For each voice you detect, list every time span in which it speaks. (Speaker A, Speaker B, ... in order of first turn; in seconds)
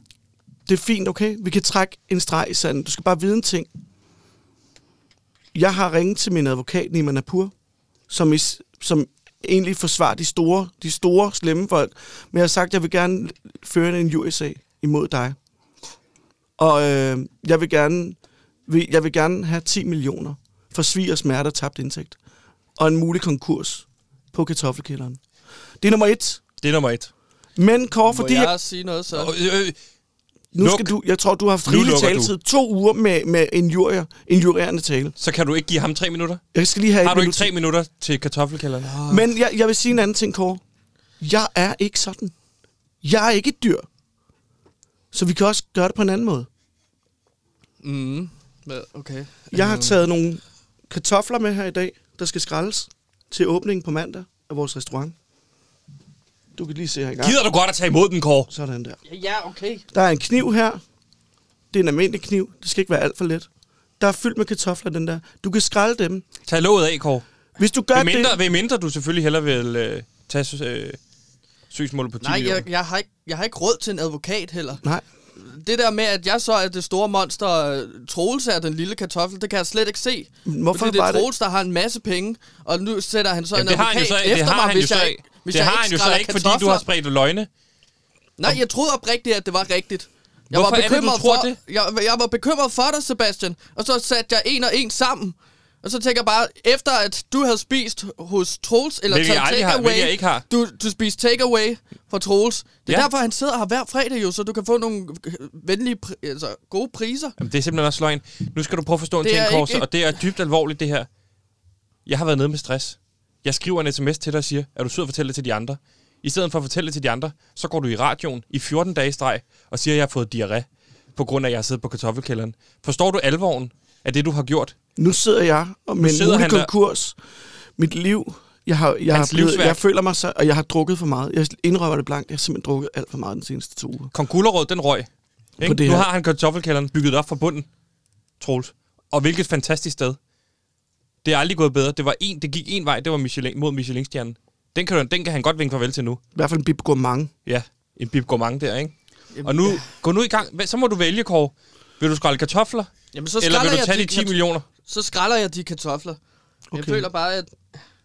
Speaker A: 0.7-3.7, 5.5-7.5, 8.1-15.4, 16.6-22.2, 22.8-25.2, 25.8-26.4, 27.6-28.5, 30.5-35.1, 36.5-37.5, 39.1-40.6, 41.2-42.3, 43.0-43.9, 45.1-46.5, 49.5-55.1, 56.5-57.4, 58.5-59.0, 59.9-60.8, 61.7-63.5, 64.0-66.3, 67.6-68.4, 80.5-81.3, 125.0-127.2, 127.8-134.1, 135.6-136.1, 146.3-147.3, 156.7-157.1
Speaker B: 26.6-27.1, 29.1-29.8, 30.6-30.9, 31.6-32.3, 35.2-36.4, 37.0-39.0, 57.2-58.5, 66.5-67.3, 67.9-71.0, 71.7-72.7, 83.5-87.5, 90.5-91.6, 99.1-100.5, 107.4-111.1, 112.1-124.8, 126.0-126.7, 129.1-129.8, 134.1-135.1, 135.6-137.7, 138.4-140.2, 141.2-146.2, 147.5-154.7
Speaker C: 28.1-29.3, 38.8-39.3, 47.8-50.0, 59.1-59.9, 72.2-74.8, 75.4-86.8, 88.4-107.3, 109.2-109.9, 149.3-149.8, 153.1-156.2, 156.7-157.6